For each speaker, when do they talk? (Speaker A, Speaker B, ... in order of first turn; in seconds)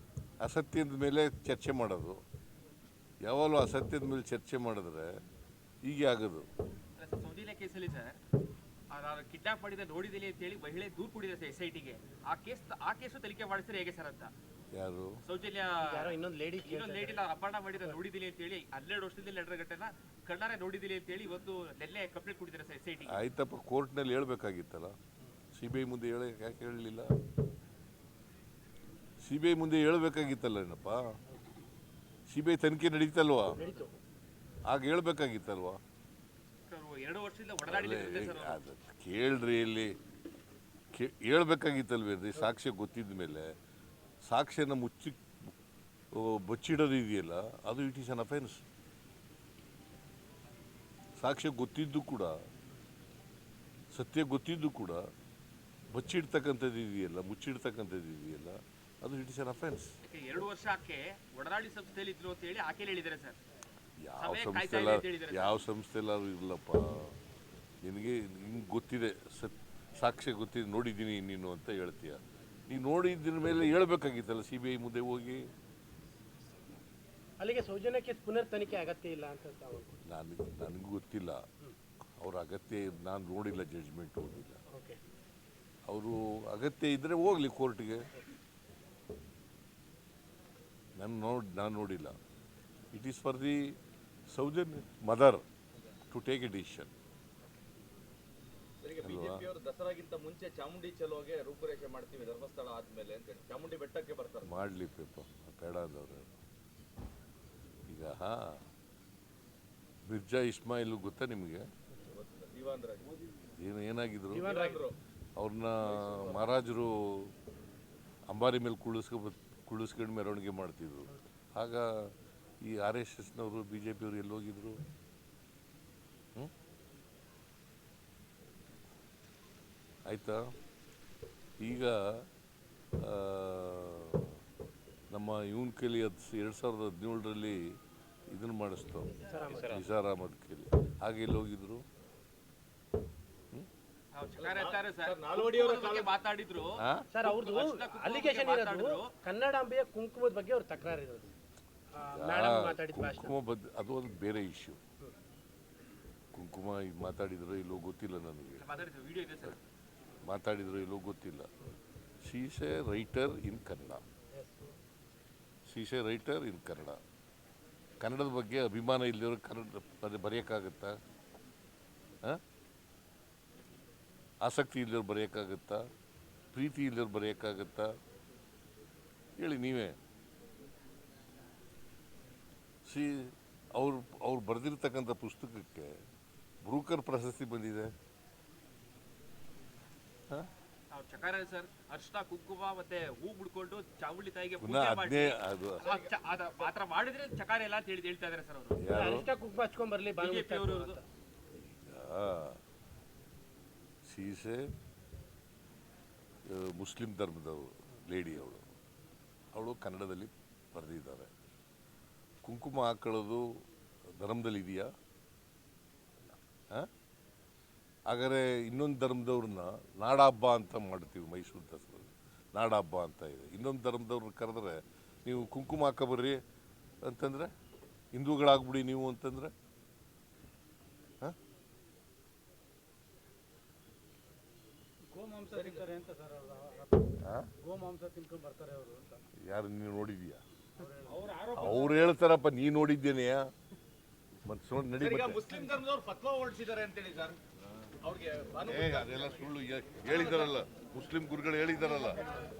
Speaker A: 0.4-2.2, 3.2-5.2, 5.8-6.5, 14.7-15.2, 23.1-24.9, 25.6-27.1, 29.2-31.1, 32.3-33.6, 34.7-35.8, 37.7-39.9, 40.9-43.5, 44.2-45.2, 46.1-48.6, 51.2-52.4, 53.9-55.0, 55.9-59.9, 64.0-67.2, 67.8-75.5, 80.0-81.4, 82.2-84.6, 85.9-88.0, 91.0-92.2, 92.9-93.7, 94.3-95.4, 96.1-96.9, 99.0-99.5, 104.5-106.3, 107.9-108.6, 110.1-111.7, 113.5-114.5, 115.3-117.3, 118.3-122.1, 122.6-124.8, 130.1-130.4, 131.6-132.3, 133.0-134.3, 135.1-137.7, 138.3-141.8, 146.8-147.1, 152.1-154.8, 156.3-158.7, 160.2-161.5, 162.2-164.0, 165.7-167.0, 168.0-171.0, 174.4-175.9, 176.5-177.9, 179.4-180.0, 182.8-186.0, 186.6-187.9, 194.6-195.9, 198.8-199.3, 201.6-202.6, 204.1-204.7, 206.5-208.6, 209.5-211.3, 212.4-213.6, 214.2-214.9, 218.1-226.4, 227.0-227.5, 228.1-229.5, 237.2-237.5, 239.4-240.4, 241.6-243.5, 244.4-245.4, 248.7-252.2
Speaker B: 7.0-8.2, 8.9-14.3, 15.2-23.2, 36.7-38.6, 60.1-63.4, 64.2-65.6, 144.1-149.1, 158.6-159.6, 190.9-198.8, 200.2-201.0
Speaker C: 15.8-18.0, 33.5-33.9, 77.4-80.0, 84.7-85.0, 114.3-114.8, 139.2-139.8, 147.1-151.3, 151.9-153.3, 164.3-164.6, 198.9-201.0
Speaker D: 98.8-104.5, 112.0-113.1, 114.3-115.0, 115.8-116.6, 144.4-146.1, 195.8-196.7, 235.5-235.9, 245.0-247.4, 248.0-250.5
Speaker E: 235.1-237.1, 237.6-239.2, 240.8-242.0